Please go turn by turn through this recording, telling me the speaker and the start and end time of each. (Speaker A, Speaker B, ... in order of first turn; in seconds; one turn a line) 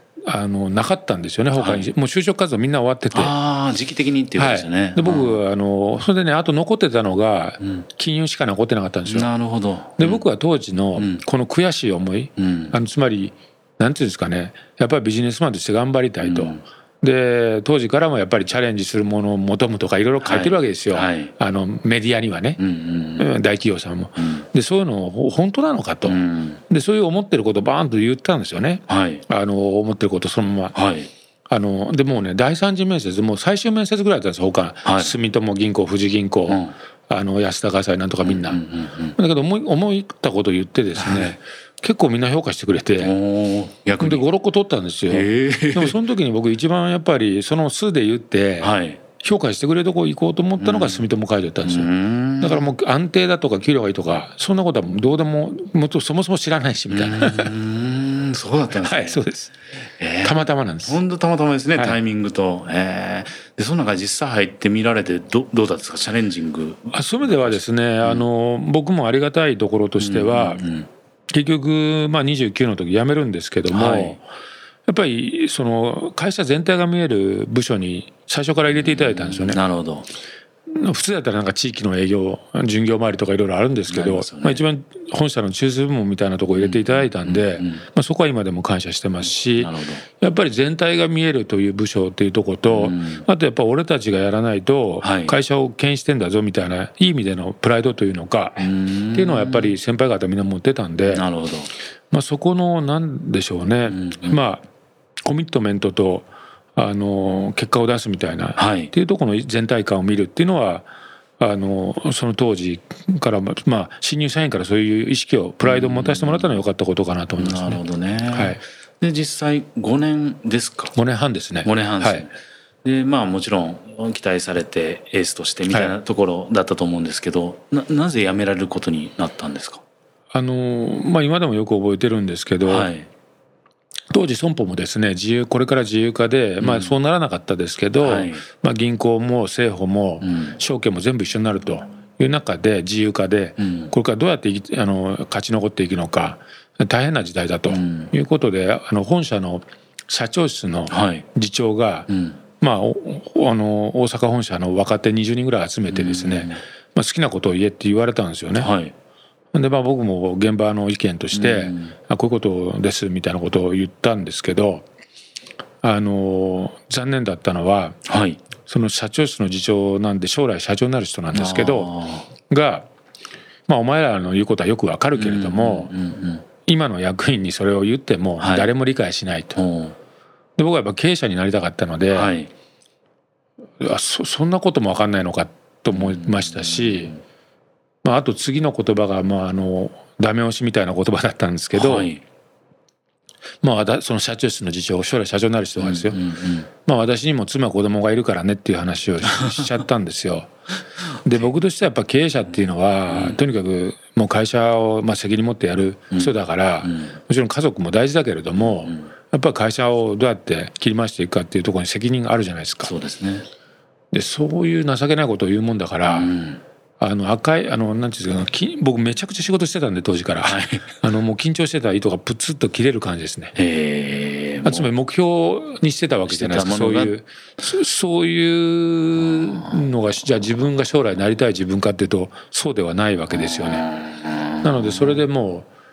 Speaker A: 0.3-3.3
Speaker B: 1.5-1.9
Speaker B: 3.1-5.4
Speaker A: 4.3-9.3
Speaker B: 9.1-10.2
Speaker A: 10.0-22.6
Speaker B: 10.9-11.2
Speaker B: 12.4-12.8
Speaker B: 16.2-16.6
Speaker B: 20.2-21.3
Speaker B: 22.6-23.3
Speaker A: 23.2-26.2
Speaker B: 24.2-24.4
Speaker B: 26.0-26.6
Speaker A: 26.7-30.7
Speaker B: 28.9-29.2
Speaker B: 30.7-31.1
Speaker A: 31.5-38.6
Speaker B: 34.8-35.2
Speaker B: 36.5-36.7
Speaker B: 38.2-39.1
Speaker A: 39.1-43.1
Speaker B: 41.0-41.3
Speaker B: 43.0-44.2
Speaker A: 44.0-57.5
Speaker B: 45.1-46.0
Speaker B: 48.6-49.0
Speaker B: 50.6-51.0
Speaker B: 51.6-52.7
Speaker B: 56.9-59.2
Speaker A: 58.8-59.5
Speaker B: 60.0-68.2
Speaker A: 60.2-61.0
Speaker A: 66.9-70.6
Speaker B: 70.0-70.9
Speaker A: 71.3-74.2
Speaker B: 73.7-74.2
Speaker A: 74.9-79.6
Speaker B: 78.7-80.1
Speaker A: 80.7-101.2
Speaker B: 83.9-84.7
Speaker B: 86.6-87.8
Speaker B: 89.3-90.0
Speaker B: 92.7-93.2
Speaker B: 95.0-95.3
Speaker B: 98.6-99.7
Speaker B: 101.1-101.7
Speaker A: 102.1-104.6
Speaker B: 103.9-104.4
Speaker A: 105.2-110.9
Speaker B: 108.6-108.9
Speaker A: 111.4-118.6
Speaker B: 115.6-116.6
Speaker B: 117.4-120.9
Speaker A: 120.9-122.2
Speaker B: 121.6-129.8
Speaker A: 125.7-125.9
Speaker A: 130.3-132.9
Speaker B: 132.6-133.1
Speaker A: 134.1-158.7
Speaker B: 136.6-137.0
Speaker B: 138.0-138.4
Speaker B: 140.2-140.6
Speaker B: 143.6-143.9
Speaker B: 147.7-148.1
Speaker B: 150.9-151.2
Speaker B: 152.1-152.4
Speaker B: 155.9-156.6
Speaker B: 158.6-158.9
Speaker A: 159.5-164.8
Speaker B: 161.3-161.9
Speaker A: 165.8-168.0
Speaker B: 168.1-168.4
Speaker A: 168.6-171.9
Speaker B: 171.3-172.3
Speaker A: 172.5-172.8
Speaker A: 173.7-175.9
Speaker B: 175.1-176.4
Speaker A: 176.6-179.6
Speaker B: 178.4-178.7
Speaker B: 179.5-179.9
Speaker A: 180.6-182.3
Speaker B: 182.1-182.5
Speaker A: 183.8-187.1
Speaker B: 185.9-187.2
Speaker A: 188.0-192.1
Speaker B: 191.7-192.2
Speaker A: 193.6-196.2
Speaker B: 195.8-196.7
Speaker A: 196.8-200.5
Speaker A: 201.2-212.9
Speaker B: 203.1-203.4
Speaker B: 206.1-207.1
Speaker B: 208.6-209.1
Speaker B: 212.8-213.4
Speaker A: 214.1-216.3
Speaker B: 216.1-216.6
Speaker A: 217.0-223.5
Speaker B: 220.4-220.8
Speaker B: 223.6-224.9
Speaker A: 224.6-233.8
Speaker B: 226.3-227.1
Speaker B: 229.3-229.8
Speaker B: 233.3-235.2
Speaker A: 234.6-235.7